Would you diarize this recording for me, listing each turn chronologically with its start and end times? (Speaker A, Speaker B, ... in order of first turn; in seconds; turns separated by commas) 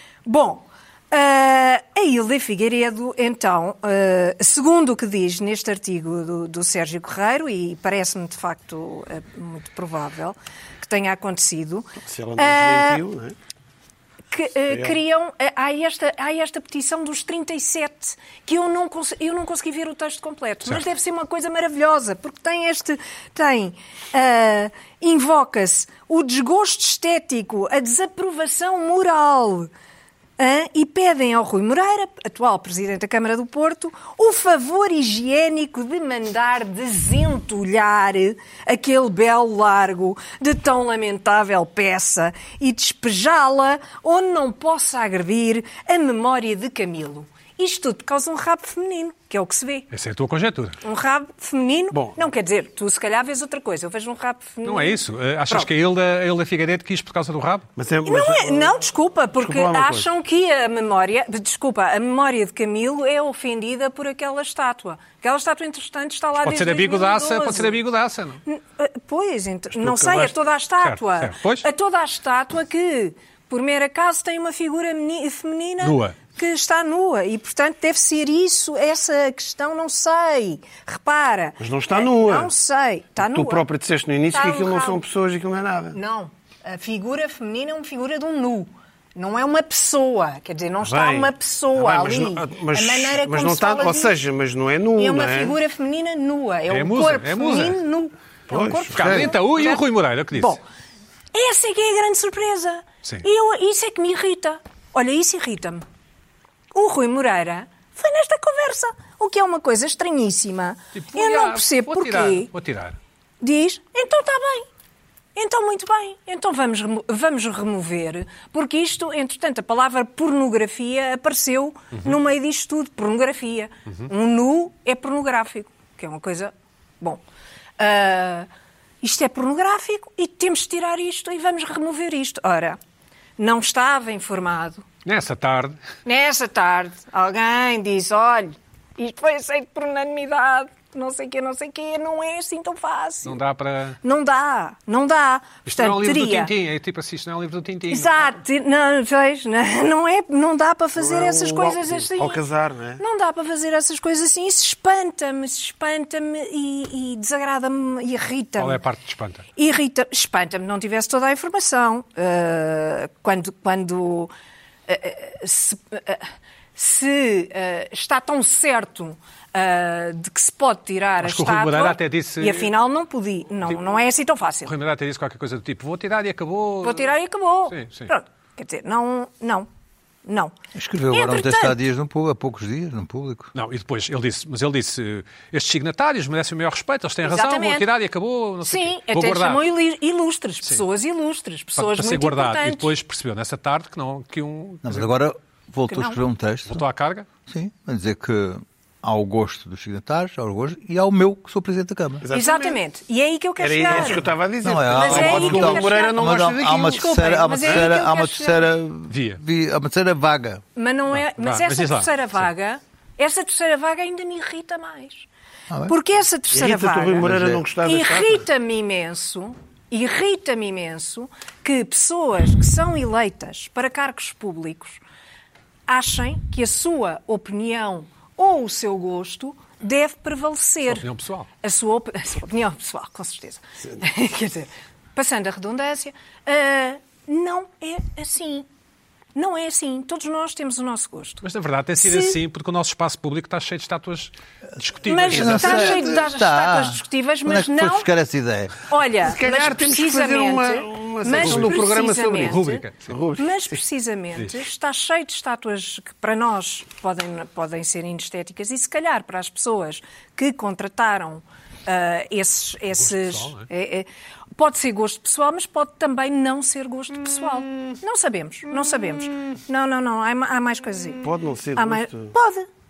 Speaker A: 0.3-13.0, Speaker B: 12.0-13.4, Speaker A: 14.3-29.7, Speaker B: 14.7-15.0, Speaker A: 30.4-49.9, Speaker C: 49.9-50.8, Speaker A: 50.8-55.7, Speaker B: 51.9-52.2, Speaker C: 54.6-57.7, Speaker B: 57.8-58.8, Speaker A: 58.0-67.8, Speaker B: 59.4-60.1, Speaker C: 66.4-68.4, Speaker A: 68.5-83.6, Speaker B: 69.8-70.3, Speaker C: 70.8-71.7, Speaker C: 75.8-76.2, Speaker B: 81.6-82.5, Speaker B: 83.2-86.0, Speaker A: 84.3-85.0, Speaker A: 85.9-94.2, Speaker B: 90.8-95.6, Speaker A: 95.0-99.8, Speaker C: 96.7-97.8, Speaker B: 98.5-99.3, Speaker C: 98.9-100.6, Speaker A: 100.3-100.6, Speaker A: 101.3-105.8, Speaker A: 106.7-112.5, Speaker C: 111.0-113.0, Speaker A: 113.4-114.7, Speaker A: 115.3-127.2, Speaker A: 127.8-128.5, Speaker A: 129.0-132.8, Speaker A: 133.4-134.8, Speaker C: 135.1-135.8, Speaker A: 136.1-143.4, Speaker C: 143.2-144.0, Speaker A: 144.0-146.5, Speaker C: 145.7-148.3, Speaker A: 147.9-152.4, Speaker B: 151.0-153.0, Speaker A: 153.0-158.8, Speaker C: 158.6-159.5, Speaker A: 159.6-164.3, Speaker A: 164.9-174.7, Speaker C: 171.2-172.7, Speaker C: 174.7-177.1, Speaker A: 176.8-179.7, Speaker C: 177.7-178.1, Speaker A: 180.2-180.6, Speaker D: 180.8-183.5, Speaker A: 181.1-181.8, Speaker C: 183.5-189.6, Speaker A: 187.2-187.9, Speaker A: 188.7-192.9, Speaker C: 191.8-195.1, Speaker D: 194.8-196.8, Speaker A: 195.9-196.2, Speaker C: 196.7-197.3, Speaker D: 197.5-202.2, Speaker B: 202.2-202.8, Speaker A: 202.3-204.3, Speaker B: 203.6-207.9, Speaker D: 204.6-210.6, Speaker A: 204.9-208.7, Speaker C: 209.1-209.4, Speaker A: 210.8-215.3, Speaker C: 211.1-212.4, Speaker A: 215.9-225.0, Speaker B: 216.5-218.4, Speaker D: 217.2-217.6, Speaker A: 225.9-231.1, Speaker C: 230.9-231.5, Speaker A: 231.6-238.7, Speaker A: 239.3-241.4, Speaker C: 241.4-245.8, Speaker A: 242.0-242.4, Speaker A: 245.0-248.1, Speaker D: 245.3-248.8, Speaker B: 245.4-246.2, Speaker A: 248.9-252.9, Speaker B: 249.2-253.5, Speaker C: 251.4-253.1, Speaker A: 253.4-272.7, Speaker C: 262.9-263.7, Speaker B: 271.2-272.3